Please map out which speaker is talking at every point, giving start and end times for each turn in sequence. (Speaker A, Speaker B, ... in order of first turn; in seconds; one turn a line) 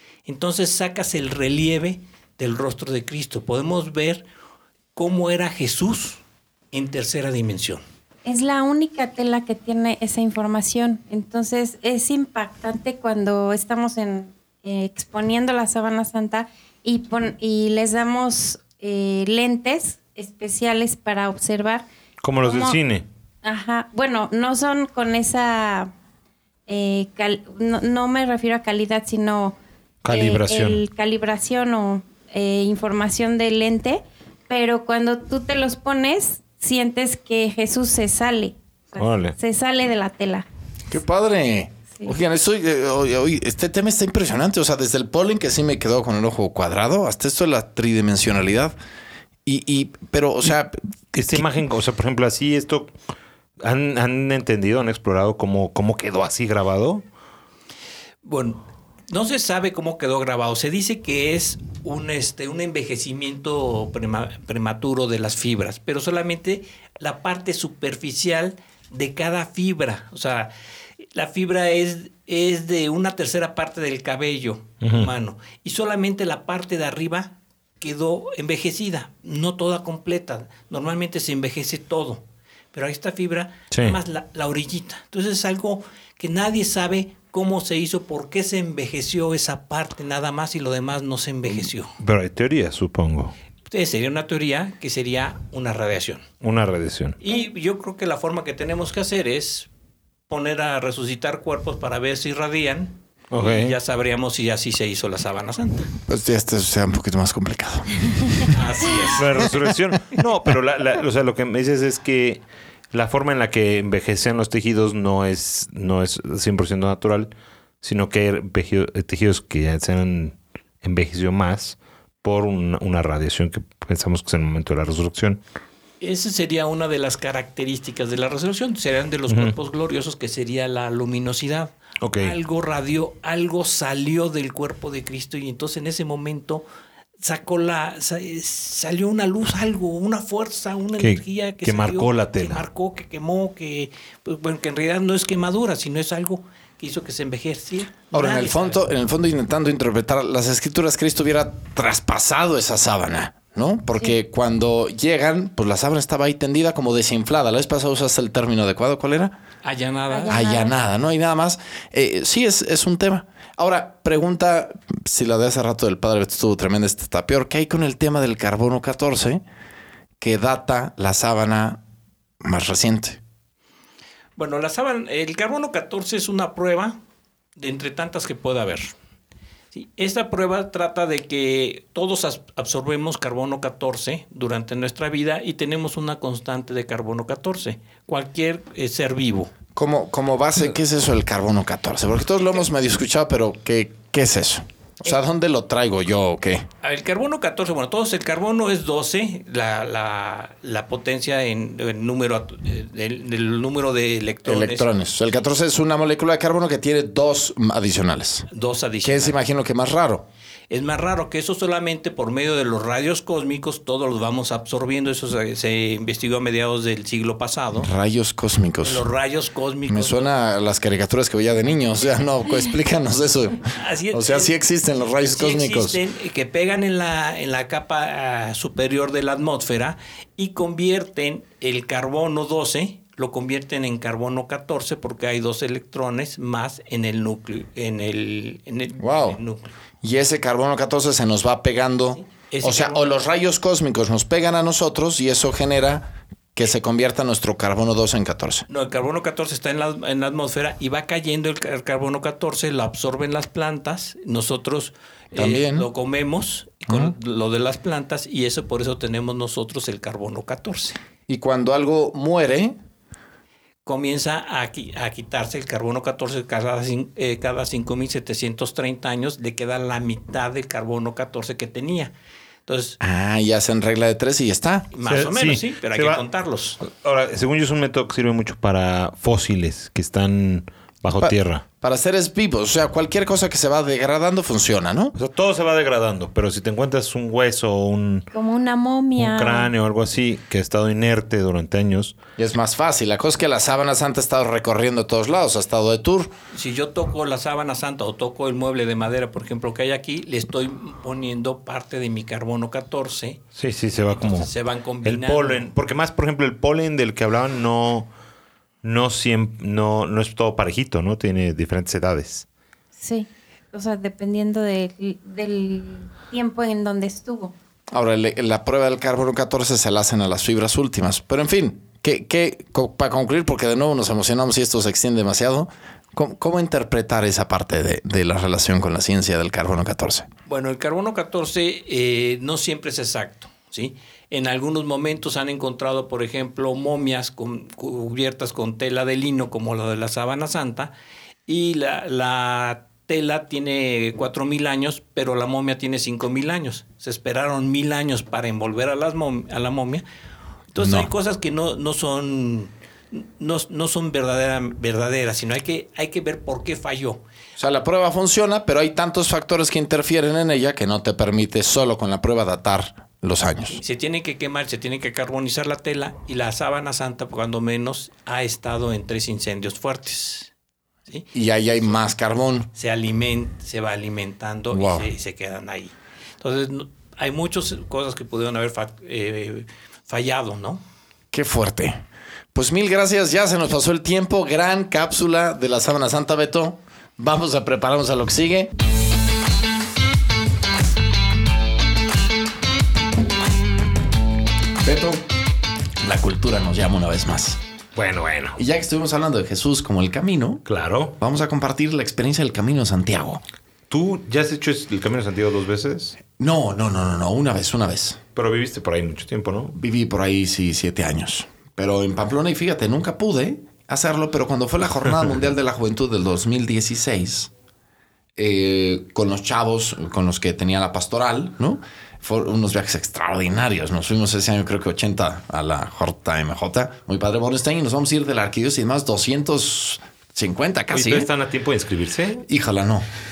Speaker A: 0.2-4.2
Speaker A: 4.9-7.8
Speaker B: 8.2-21.9
Speaker C: 22.2-23.1
Speaker B: 22.4-22.8
Speaker B: 23.4-25.9
Speaker B: 26.7-29.6
Speaker C: 30.0-30.8
Speaker B: 30.1-40.5
Speaker C: 39.0-39.3
Speaker D: 40.9-48.7
Speaker D: 49.4-50.8
Speaker C: 51.1-52.9
Speaker C: 53.6-57.0
Speaker A: 58.2-91.9
Speaker C: 74.8-75.1
Speaker C: 92.0-93.3
Speaker A: 93.7-96.3
Speaker C: 96.4-97.2
Speaker A: 97.2-99.7
Speaker A: 100.3-105.9
Speaker C: 103.3-103.8
Speaker D: 106.0-108.6
Speaker A: 108.5-109.6
Speaker C: 109.2-117.3
Speaker C: 117.8-125.4
Speaker A: 126.0-136.7
Speaker C: 129.3-129.5
Speaker C: 132.0-132.4
Speaker A: 137.2-148.8
Speaker C: 141.0-142.6
Speaker D: 148.1-159.3
Speaker A: 159.6-160.4
Speaker B: 160.1-160.8
Speaker D: 160.3-169.4
Speaker D: 170.2-171.8
Speaker D: 172.4-173.2
Speaker A: 174.3-177.0
Speaker A: 177.6-178.9
Speaker A: 179.7-189.5
Speaker D: 189.8-196.7
Speaker A: 196.8-204.9
Speaker D: 204.4-208.5
Speaker A: 208.5-209.3
Speaker D: 209.0-210.2
Speaker A: 210.7-217.9
Speaker D: 217.8-219.1
Speaker A: 218.8-220.3
Speaker D: 219.9-226.0
Speaker A: 223.7-224.5
Speaker A: 225.2-239.7
Speaker D: 239.0-239.4
Speaker D: 240.0-248.7
Speaker A: 242.1-243.0
Speaker A: 248.7-261.0
Speaker D: 255.3-255.9
Speaker D: 256.9-257.1
Speaker D: 261.3-262.8
Speaker A: 263.8-272.1
Speaker A: 272.6-273.0
Speaker D: 273.0-274.9
Speaker A: 274.9-276.8
Speaker C: 275.0-276.2
Speaker C: 276.8-281.6
Speaker D: 281.2-285.1
Speaker C: 285.1-288.3
Speaker B: 288.3-289.7
Speaker C: 289.1-292.1
Speaker D: 292.4-296.3
Speaker A: 296.5-303.4
Speaker C: 303.6-304.5
Speaker A: 304.1-305.7
Speaker C: 305.0-308.1
Speaker C: 308.8-312.4
Speaker B: 313.0-317.5
Speaker D: 317.9-330.3
Speaker A: 330.5-340.9
Speaker A: 341.5-350.0
Speaker A: 350.7-357.2
Speaker D: 350.8-351.1
Speaker D: 357.6-363.8
Speaker A: 363.8-370.5
Speaker D: 371.3-372.7
Speaker A: 372.7-380.8
Speaker D: 374.7-375.1
Speaker D: 381.3-382.0
Speaker D: 382.5-388.7
Speaker D: 394.8-395.2
Speaker D: 396.0-397.6
Speaker C: 397.9-398.6
Speaker D: 398.6-400.6
Speaker C: 400.6-401.2
Speaker D: 401.2-403.4
Speaker C: 403.9-406.2
Speaker D: 406.4-408.2
Speaker C: 408.4-409.7
Speaker D: 409.7-417.5
Speaker D: 418.4-431.3
Speaker C: 430.9-432.4
Speaker D: 432.5-433.1